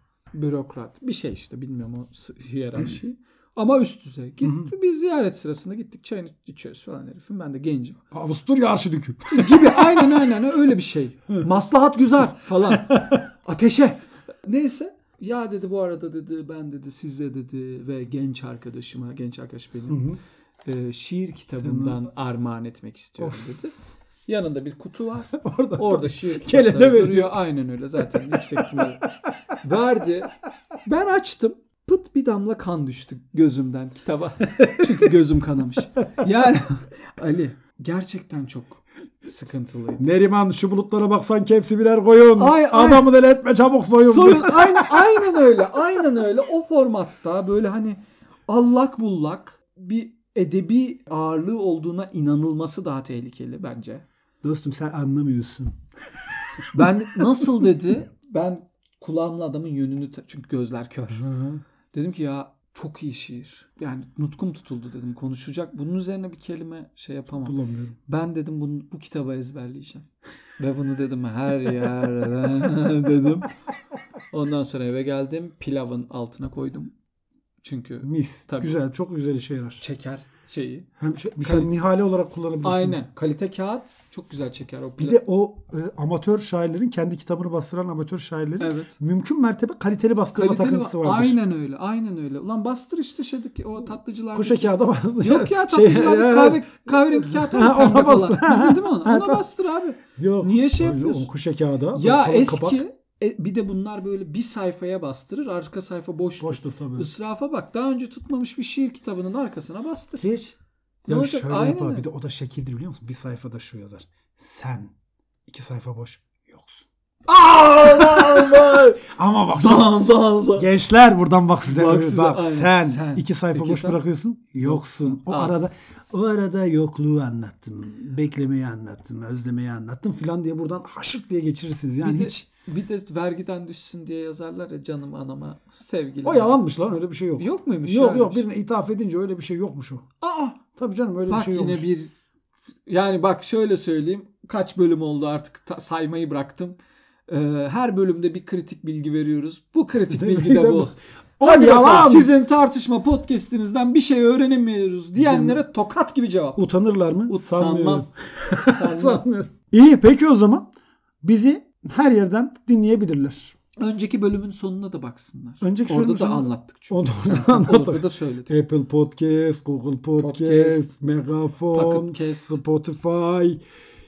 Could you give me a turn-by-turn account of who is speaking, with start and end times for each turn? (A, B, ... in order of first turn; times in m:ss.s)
0:00.3-0:08.0 A
0:04.4-0:04.7 B
0:08.1-0:10.3 B
0:09.3-0:20.0 A
0:12.7-0:13.2 B
0:19.9-0:20.2 B
0:20.6-0:23.7 A
0:21.6-0:22.0 B
0:23.2-0:23.4 B
0:24.3-0:29.0 A
0:25.3-0:27.4 B
0:28.1-0:29.1 B
0:29.6-0:30.3 A
0:30.8-0:40.0 A
0:34.6-0:35.1 B
0:40.0-0:45.3 B
0:42.4-0:43.1 A
0:44.0-0:54.0 A
0:54.4-0:55.8 B
0:56.6-0:57.7 B
0:56.7-1:01.2 A
1:01.1-1:01.6 B
1:01.9-1:10.0 A
1:07.4-1:08.0 B
1:10.6-1:13.5 A
1:14.3-1:16.9 A
1:17.6-1:18.8 A
1:18.0-1:19.8 B
1:19.8-1:20.9 A
1:21.0-1:23.0 B
1:21.4-1:21.7 A
1:22.6-1:25.2 A
1:25.0-1:31.4 B
1:28.6-1:28.9 A
1:30.3-1:41.3 A
1:34.3-1:39.4 B
1:40.2-1:42.8 B
1:41.9-1:50.2 A
1:46.4-1:47.1 B
1:50.2-1:50.5 B
1:51.0-1:54.9 B
1:51.1-1:52.0 A
1:55.5-1:56.8 B
1:57.3-2:00.7 A
1:58.1-2:12.5 B
2:01.6-2:04.0 A
2:04.6-2:05.5 A
2:12.0-2:16.6 A
2:16.2-2:20.0 B
2:17.4-2:18.4 A
2:20.2-2:20.6 A
2:20.8-2:21.8 B
2:21.3-2:22.1 A
2:22.9-2:26.8 A
2:27.3-2:36.6 A
2:30.1-2:32.3 B
2:35.2-2:35.6 B
2:36.6-2:40.7 B
2:37.3-2:38.1 A
2:38.7-2:39.2 A
2:41.2-2:43.5 B
2:43.8-2:48.5 A
2:45.6-2:53.6 B
2:50.2-2:50.9 A
2:51.7-2:52.6 A